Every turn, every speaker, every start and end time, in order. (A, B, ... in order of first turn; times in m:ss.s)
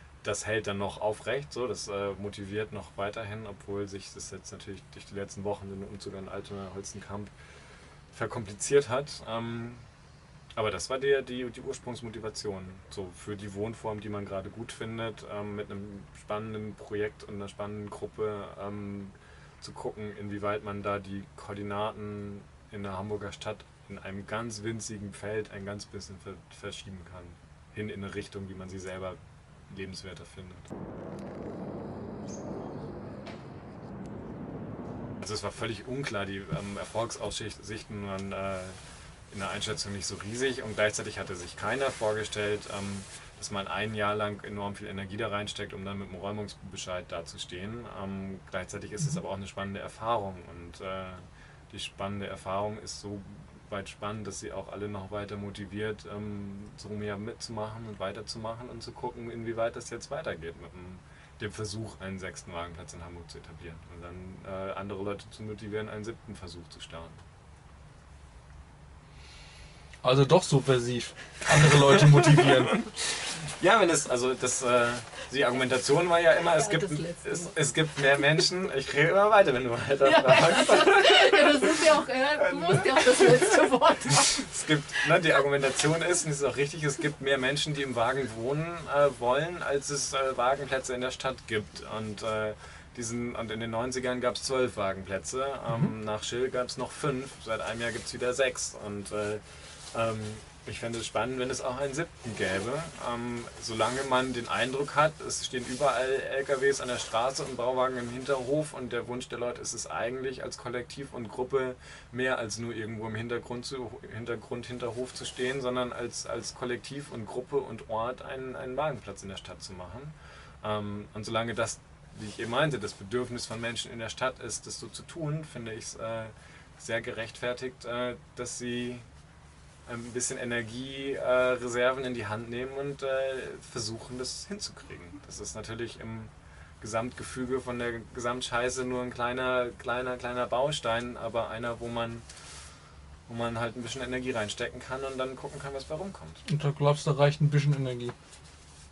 0:00.2-0:07.3 A
0:08.1-0:09.9 A
0:10.5-0:30.7 A
0:35.2-0:38.8 A
0:39.3-1:07.2 A
1:10.0-1:12.8 B
1:12.0-1:23.4 A
1:16.5-1:17.5 C
1:20.0-1:24.5 C
1:24.0-2:09.0 A
2:09.9-2:22.2 A
2:23.3-2:26.4 A
2:26.5-2:28.1 B